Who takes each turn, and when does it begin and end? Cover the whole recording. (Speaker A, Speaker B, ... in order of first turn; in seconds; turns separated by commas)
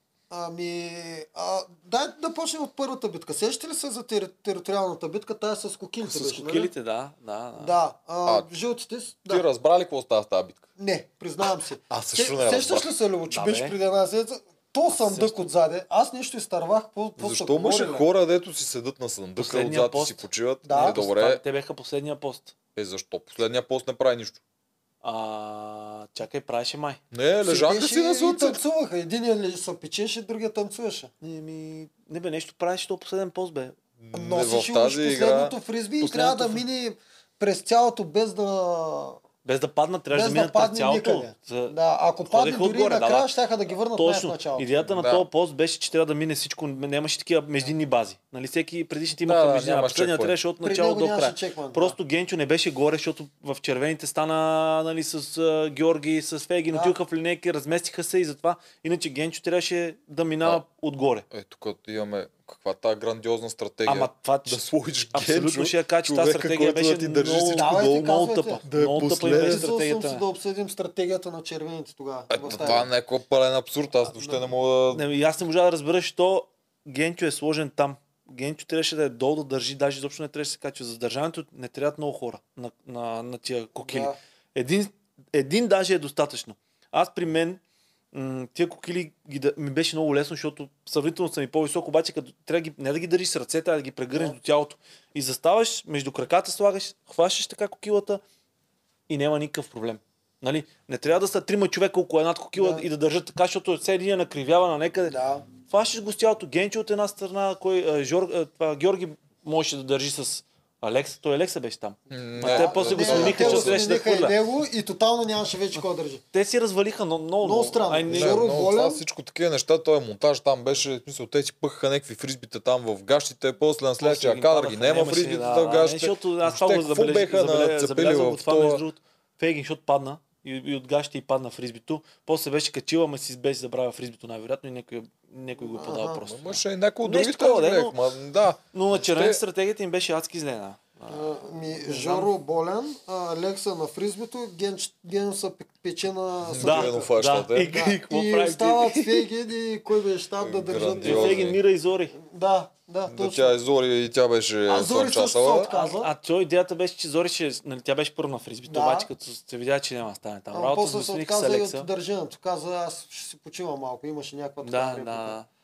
Speaker A: 0.3-6.7, Speaker B: 6.0-7.8, Speaker A: 7.6-9.5, Speaker C: 9.3-10.7, Speaker A: 10.8-18.1, Speaker C: 11.9-12.9, Speaker B: 13.3-13.8, Speaker B: 14.9-15.5, Speaker C: 17.2-21.4, Speaker B: 19.4-22.5, Speaker A: 20.6-21.0, Speaker C: 22.8-24.4, Speaker B: 25.0-27.0, Speaker C: 27.1-28.6, Speaker A: 27.4-31.1, Speaker B: 31.2-33.7, Speaker C: 34.0-35.5, Speaker A: 34.1-39.2, Speaker B: 36.0-36.6, Speaker B: 39.5-43.3, Speaker A: 40.1-44.8, Speaker B: 43.9-61.3, Speaker C: 44.9-45.3, Speaker C: 49.3-50.4, Speaker A: 50.6-52.0, Speaker C: 61.3-67.8, Speaker B: 63.9-70.2, Speaker A: 67.3-72.9, Speaker C: 68.6-69.7, Speaker C: 72.3-75.0, Speaker A: 74.1-74.4, Speaker B: 74.9-87.6, Speaker A: 83.8-84.2, Speaker B: 88.1-98.2, Speaker B: 99.1-114.3, Speaker A: 102.6-102.8, Speaker A: 105.1-105.5, Speaker C: 112.1-113.8, Speaker A: 112.4-116.2, Speaker B: 116.3-118.5, Speaker A: 117.4-119.0, Speaker C: 118.1-128.8, Speaker B: 124.0-138.0, Speaker A: 135.6-136.3, Speaker C: 136.3-139.4, Speaker B: 138.7-142.3, Speaker A: 141.1-151.5, Speaker C: 146.4-147.7, Speaker B: 146.6-149.3, Speaker C: 150.4-151.6, Speaker B: 151.0-152.2, Speaker A: 152.2-153.6, Speaker C: 153.1-155.7, Speaker A: 154.7-156.1, Speaker B: 155.7-161.9, Speaker A: 158.7-159.1, Speaker A: 160.5-165.4, Speaker B: 164.6-165.5